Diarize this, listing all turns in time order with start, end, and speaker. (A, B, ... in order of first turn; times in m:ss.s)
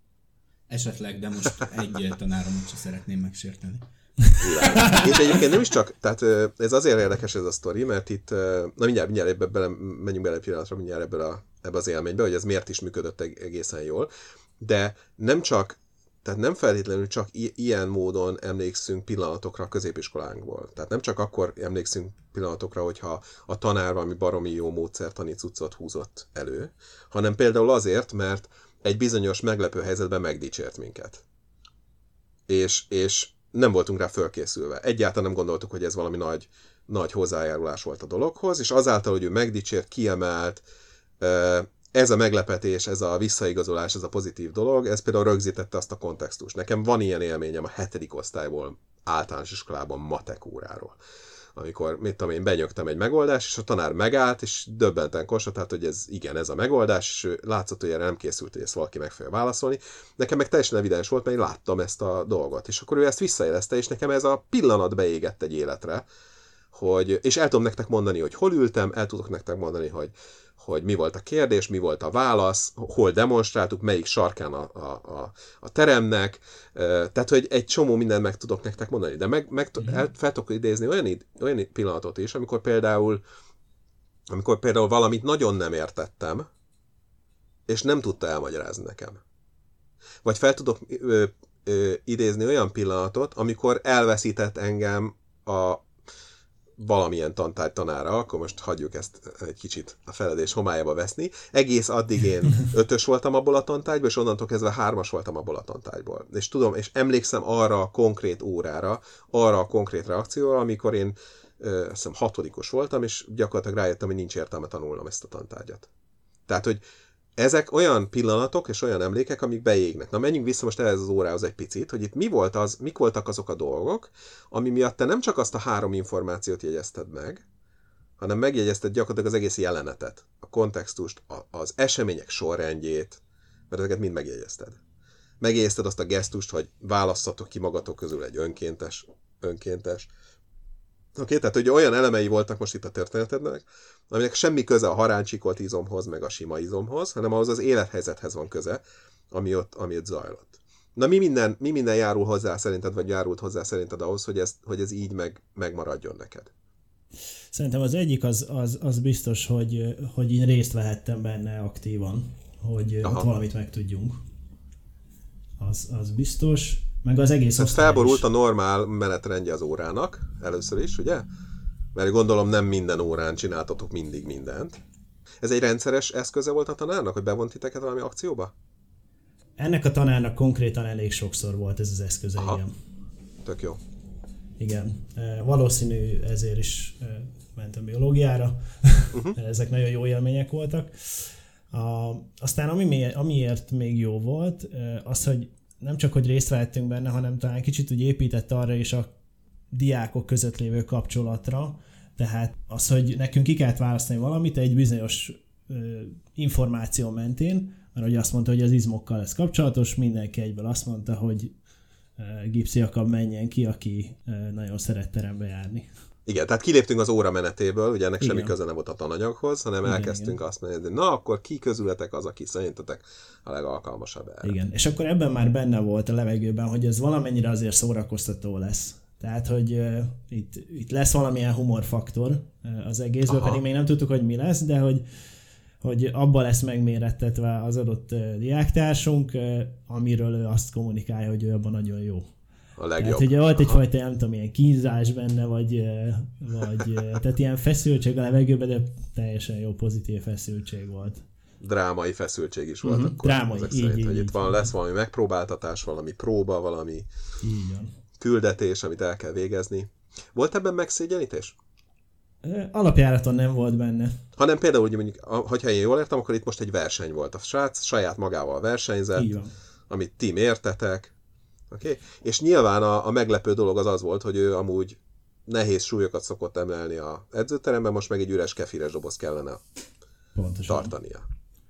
0:00.7-0:05.1 A
0:04.4-0:31.2 B
0:32.5-0:40.6 B
0:41.2-0:51.0 B
0:51.6-1:06.0 B
1:06.7-1:23.2 B
1:24.3-1:26.5 B
1:27.7-1:29.2 B
1:30.2-1:35.8 B
1:36.8-1:55.9 B
1:56.5-1:56.8 B
1:57.4-2:07.4 B
2:08.2-2:14.8 B
2:15.4-2:20.1 B
2:21.2-2:36.5 B
2:37.5-2:44.2 C
2:45.6-2:48.2 C
2:47.6-2:51.3 B
2:51.9-2:54.8 B
2:55.4-2:58.5 B
2:59.6-3:02.7 C
3:03.4-3:03.8 B
3:04.6-3:19.1 C
3:19.7-3:31.6 C
3:32.2-3:35.9 C
3:36.3-3:44.6 B
3:38.2-3:38.5 C
3:39.8-3:40.4 C
3:44.4-3:55.0 C
3:53.3-3:53.6 B
3:55.8-4:02.2 C
4:02.8-4:03.8 B
4:03.0-4:11.2 C
4:11.6-4:17.1 B
4:12.8-4:14.7 C
4:17.4-4:17.9 C
4:18.2-4:21.6 B
4:22.4-4:24.2 C
4:24.4-4:29.4 B
4:29.2-4:29.5 C
4:29.9-4:31.1 B
4:31.7-4:39.6 B
4:40.4-4:40.9 C
4:40.7-4:41.2 B